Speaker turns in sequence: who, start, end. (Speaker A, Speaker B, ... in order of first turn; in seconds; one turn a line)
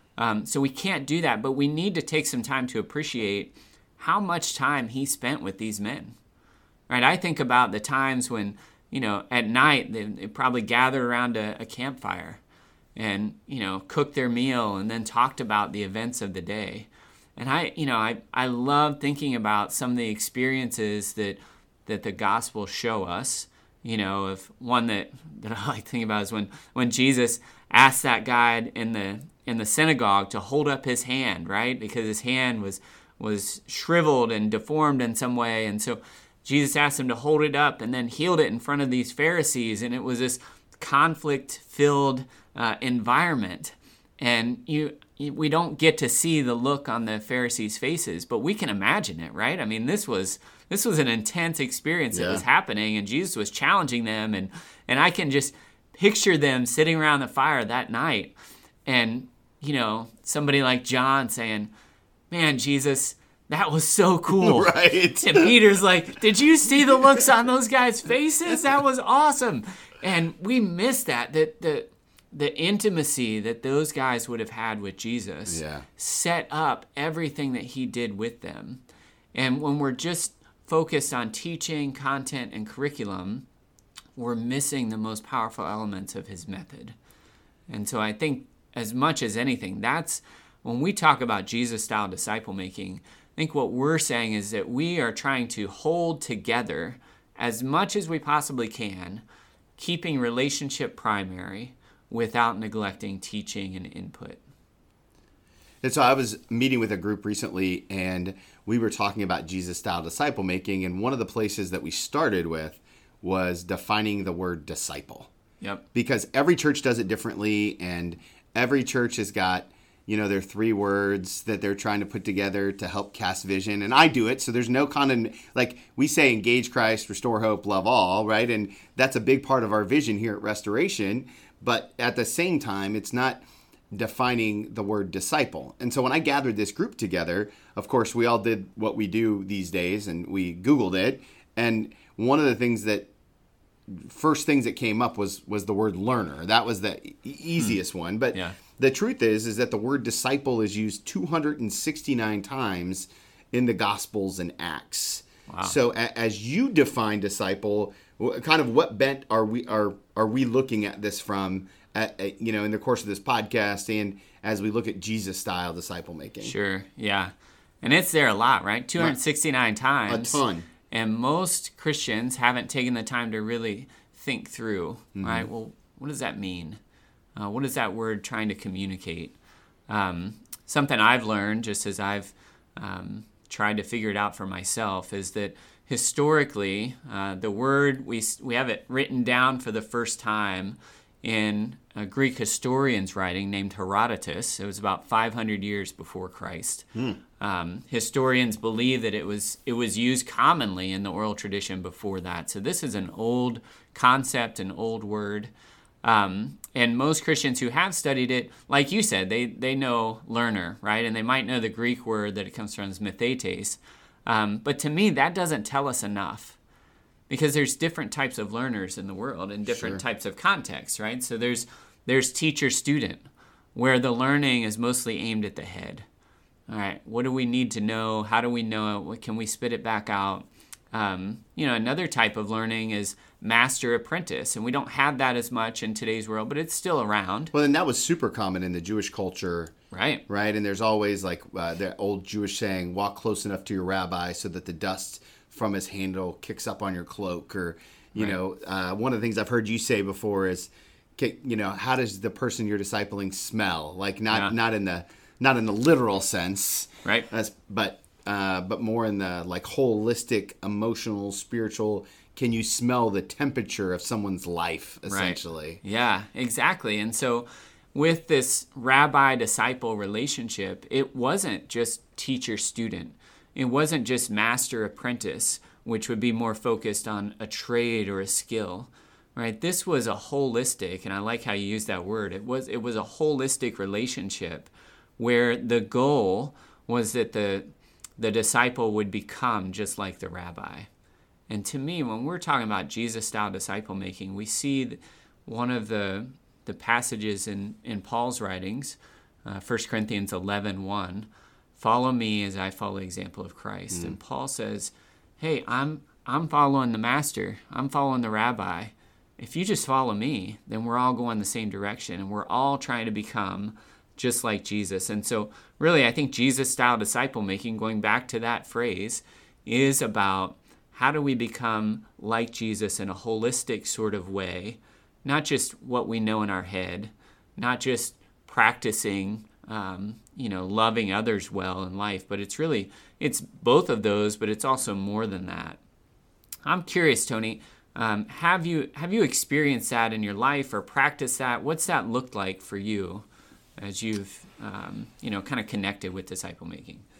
Speaker A: 0.2-6.1
Speaker A: 6.9-12.4
Speaker A: 12.9-58.3
Speaker B: 52.1-52.4
Speaker A: 58.9-61.7
Speaker A: 62.3-78.8
Speaker B: 64.3-65.5
Speaker B: 75.5-75.9
Speaker A: 79.3-83.5
Speaker A: 84.2-87.0
Speaker A: 87.7-99.2
Speaker A: 99.8-104.4
Speaker B: 105.8-115.3
Speaker B: 115.9-143.1
Speaker B: 143.9-166.5
Speaker A: 155.5-155.8
Speaker A: 166.4-176.8
Speaker B: 170.1-170.7
Speaker B: 175.2-175.5
Speaker A: 177.4-179.3
Speaker A: 179.9-196.9
Speaker B: 196.9-197.2
Speaker A: 197.4-205.5
Speaker A: 206.0-216.6
Speaker A: 217.3-226.1
Speaker B: 219.7-220.0
Speaker A: 226.7-237.5
Speaker B: 237.5-239.7
Speaker A: 239.9-240.2
Speaker B: 240.3-265.8
Speaker A: 265.1-287.7
Speaker A: 288.2-290.9
Speaker A: 291.5-335.8
Speaker B: 303.9-304.2
Speaker A: 336.6-343.2
Speaker A: 343.8-347.1